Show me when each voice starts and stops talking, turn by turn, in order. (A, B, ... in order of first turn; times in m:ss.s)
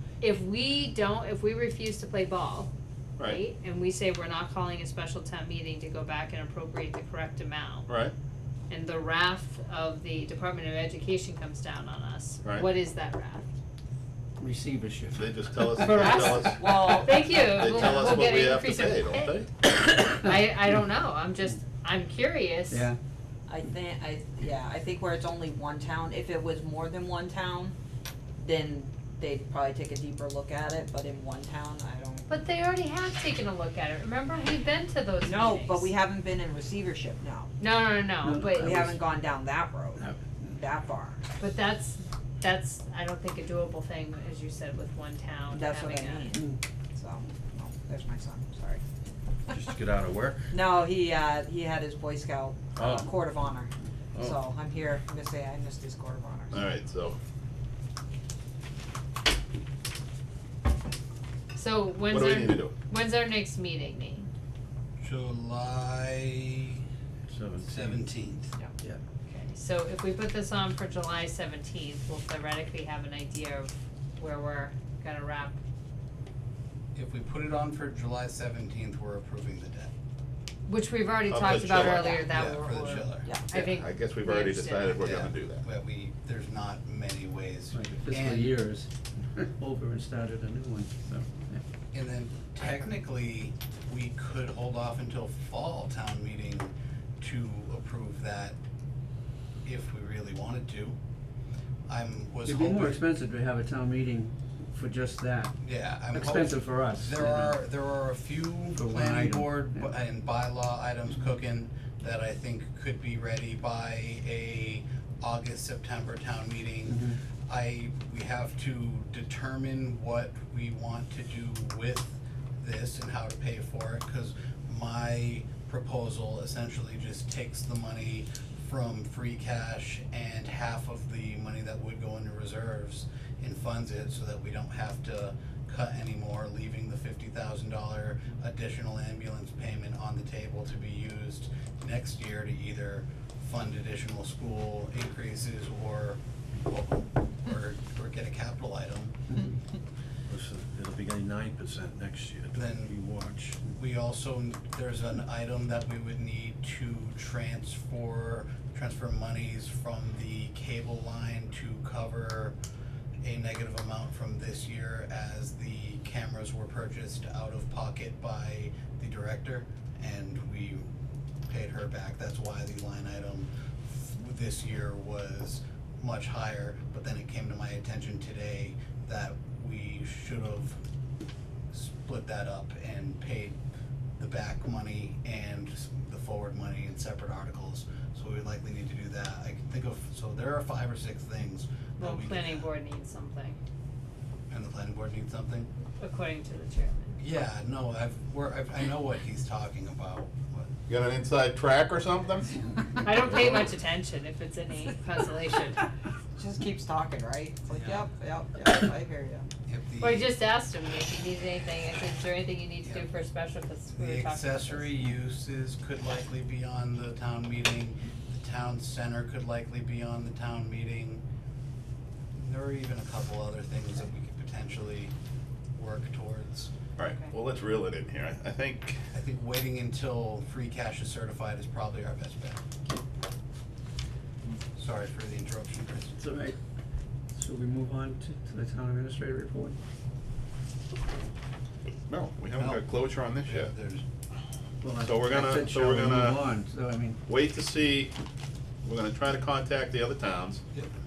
0:00.2-0:07.9 A
0:07.9-0:08.1 B
0:08.7-0:13.5 A
0:12.4-0:12.7 B
0:14.4-0:16.1 C
0:15.1-0:19.5 B
0:15.7-0:22.9 A
0:16.4-0:18.1 D
0:22.7-0:23.0 C
0:23.5-0:27.8 D
0:28.4-0:32.3 D
0:32.3-0:35.9 A
0:35.2-0:37.5 D
0:37.6-0:38.8 A
0:38.2-0:39.0 C
0:38.5-0:41.2 D
0:40.0-0:40.5 C
0:41.4-0:46.3 A
0:45.5-0:48.8 D
0:49.5-0:50.4 E
0:50.5-0:56.6 D
0:52.7-0:53.2 E
0:54.1-0:54.4 E
0:56.5-0:57.2 B
1:01.5-1:04.3 A
1:02.1-1:02.7 B
1:05.0-1:06.8 F
1:07.3-1:08.0 E
1:07.6-1:08.5 F
1:09.3-1:15.6 A
1:17.0-1:19.9 F
1:20.7-1:25.1 A
1:21.3-1:22.2 B
1:21.4-1:22.3 D
1:22.3-1:23.3 F
1:23.2-1:23.5 D
1:23.5-1:25.7 B
1:25.0-1:28.7 F
1:27.7-1:31.6 C
1:31.9-1:38.6 F
1:39.6-1:41.0 F
1:41.9-1:43.0 F
1:42.4-1:45.5 C
1:45.6-2:29.4 F
1:46.1-1:47.5 C
1:48.8-1:49.9 C
1:56.9-1:57.2 C
2:30.3-2:33.6 E
2:32.5-2:33.0 F
2:33.7-2:42.6 F
2:43.2-2:50.9 F
2:51.5-3:00.8 F
3:01.7-3:03.6 F
3:04.2-3:12.7 F
3:12.0-3:13.6 A
3:14.5-3:15.7 F
3:16.0-3:17.2 A
3:17.2-3:20.7 F
3:20.9-3:22.6 B
3:23.0-3:25.9 A
3:26.4-3:29.5 D
3:27.7-3:28.1 F
3:29.6-3:30.4 F
3:30.0-3:34.9 A
3:32.8-3:33.1 F
3:33.9-3:41.2 F
3:42.3-3:45.1 F
3:45.8-3:46.7 F
3:47.0-3:49.0 B
3:49.1-3:52.6 F
3:54.8-3:56.1 F
3:56.2-3:56.6 C
3:57.3-3:59.8 C
4:02.1-4:03.7 B
4:02.5-4:04.0 F
4:04.8-4:07.2 C
4:05.0-4:06.4 B
4:07.3-4:08.1 B
4:08.8-4:10.6 B